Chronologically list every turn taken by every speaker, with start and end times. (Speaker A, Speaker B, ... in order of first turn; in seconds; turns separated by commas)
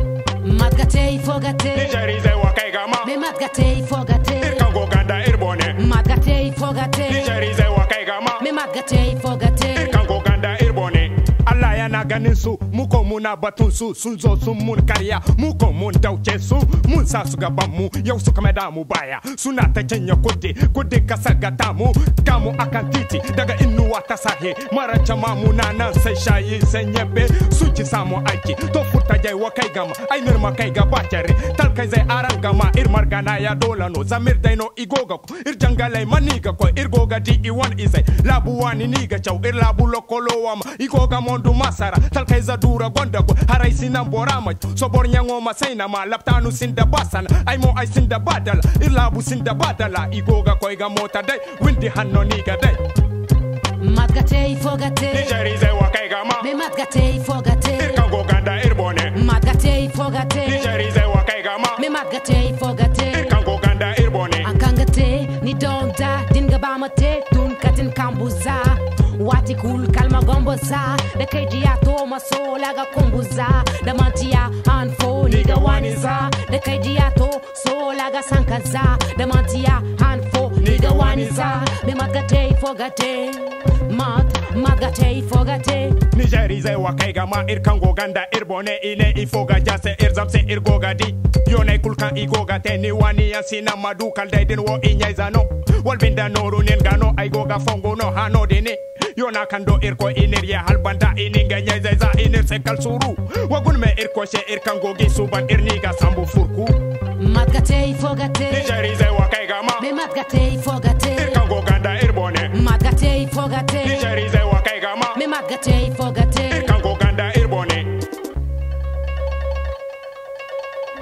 Speaker A: 0.3-1.9, Speaker B: 1.7-3.1, Speaker A: 3.0-4.7, Speaker B: 4.4-5.8, Speaker A: 5.7-7.3, Speaker B: 7.1-8.4, Speaker A: 8.4-10.0, Speaker B: 9.7-52.8, Speaker A: 53.8-55.3, Speaker B: 55.1-56.5, Speaker A: 56.4-58.0, Speaker B: 57.8-59.1, Speaker A: 59.1-60.7, Speaker B: 60.4-61.8, Speaker A: 61.8-63.4, Speaker B: 63.1-64.5, Speaker A: 64.4-86.0, Speaker B: 75.2-76.3, Speaker B: 80.6-81.7, Speaker B: 86.1-106.8, Speaker A: 107.1-108.7, Speaker B: 108.5-109.8, Speaker A: 109.8-111.4, Speaker B: 111.2-112.5, Speaker A: 112.5-114.1, Speaker B: 113.8-115.2, Speaker A: 115.1-116.8, Speaker B: 116.5-118.0